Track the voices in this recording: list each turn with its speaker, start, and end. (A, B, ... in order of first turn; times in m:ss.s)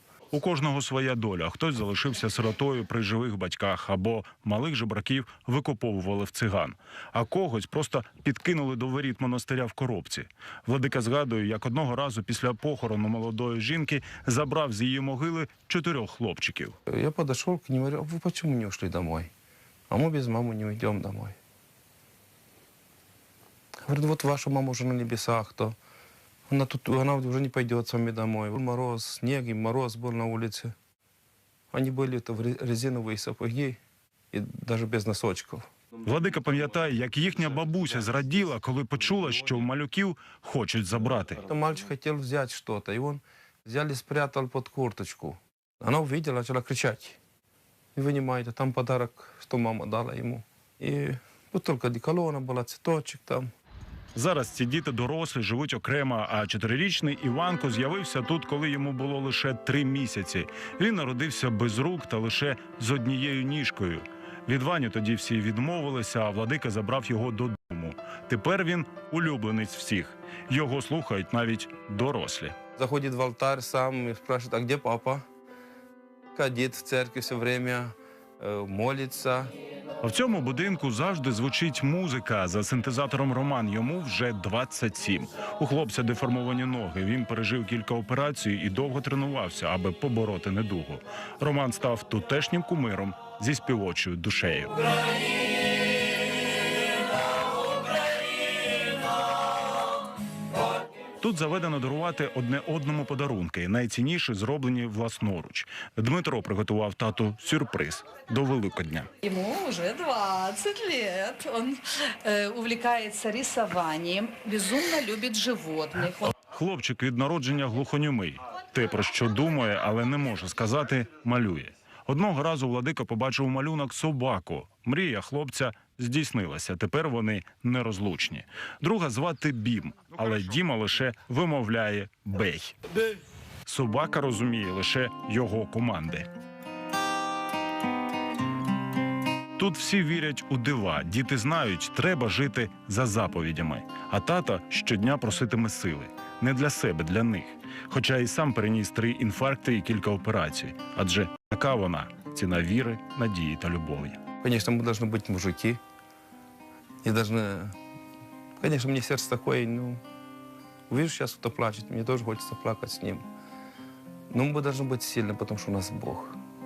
0:00.3-0:16.7 A
0:16.9-0:19.3 B
0:19.9-0:21.4 B
0:23.8-0:25.8 B
0:26.5-0:30.7 B
0:31.7-0:33.8 B
0:34.3-0:35.7 B
0:36.0-0:41.4 A
0:41.5-0:47.2 B
0:47.9-0:53.5 B
0:54.1-1:12.5 A
1:12.8-1:15.2 B
1:16.3-1:19.5 B
1:20.0-1:34.7 A
1:41.2-1:49.1 A
1:49.2-1:56.3 C
1:56.3-2:12.7 A
2:13.6-2:16.3 A
2:19.6-2:34.2 A
2:34.4-2:35.8 B
2:37.0-2:37.7 B
2:38.6-2:40.0 B
2:40.9-2:43.2 B
2:44.3-2:46.4 B